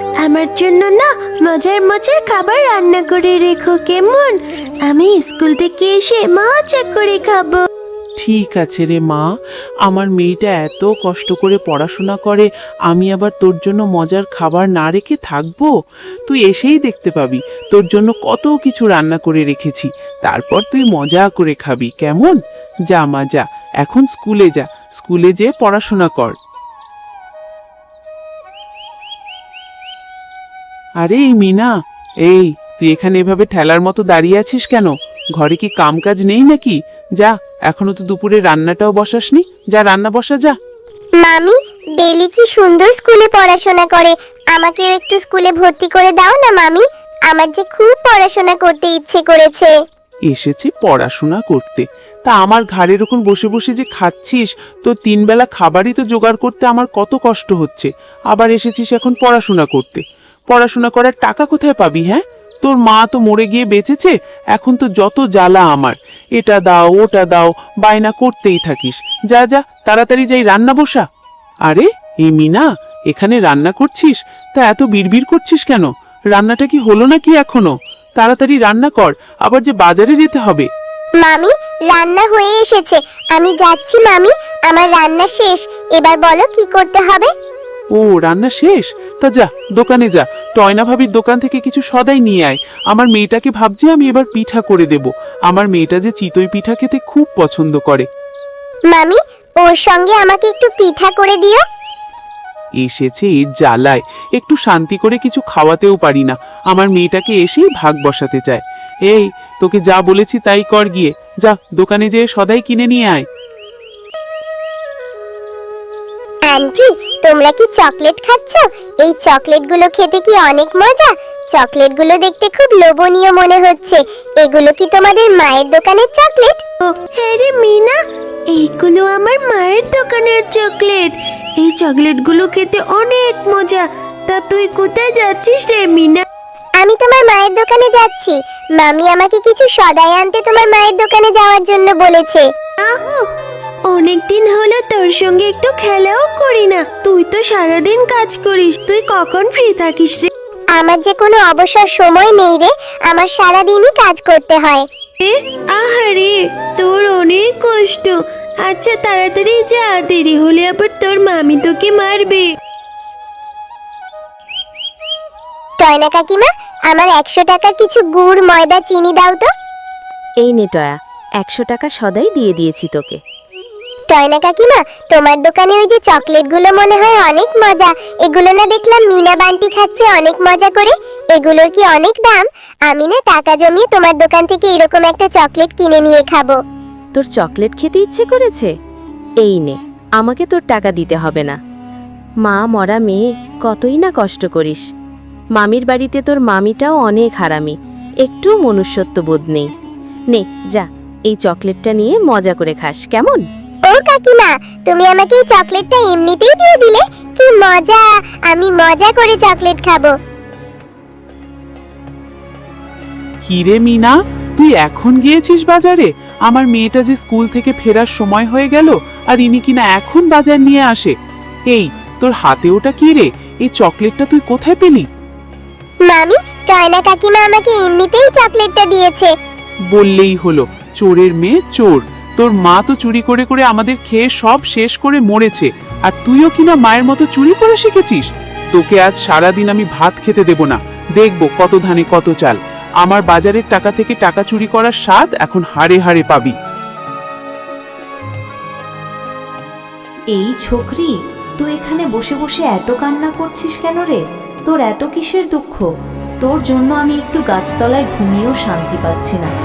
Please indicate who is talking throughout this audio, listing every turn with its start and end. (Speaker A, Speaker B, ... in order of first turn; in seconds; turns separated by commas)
Speaker A: 0.2-7.6, Speaker B: 8.2-9.3, Speaker B: 9.8-15.7, Speaker B: 16.3-22.4, Speaker B: 22.9-26.4, Speaker B: 31.0-31.7, Speaker B: 32.2-40.6, Speaker C: 41.2-49.7, Speaker B: 50.3-71.0, Speaker B: 71.7-80.7, Speaker C: 81.2-87.3, Speaker B: 88.0-98.1, Speaker C: 98.9-101.6, Speaker B: 102.8-113.2, Speaker C: 116.5-126.6, Speaker A: 127.0-128.0, Speaker A: 128.5-136.2, Speaker C: 136.8-142.5, Speaker A: 142.8-143.2, Speaker A: 143.9-150.3, Speaker C: 150.7-154.8, Speaker A: 155.2-158.1, Speaker A: 158.6-162.5, Speaker C: 165.8-169.5, Speaker D: 170.4-173.2, Speaker C: 174.1-186.6, Speaker D: 187.1-188.7, Speaker D: 189.4-191.6, Speaker D: 192.4-194.8, Speaker D: 195.5-199.7, Speaker D: 200.3-203.4, Speaker C: 203.9-210.1, Speaker B: 213.4-221.1, Speaker B: 221.7-225.1, Speaker C: 226.1-229.3, Speaker B: 229.9-246.5, Speaker E: 250.3-255.8, Speaker E: 256.4-259.5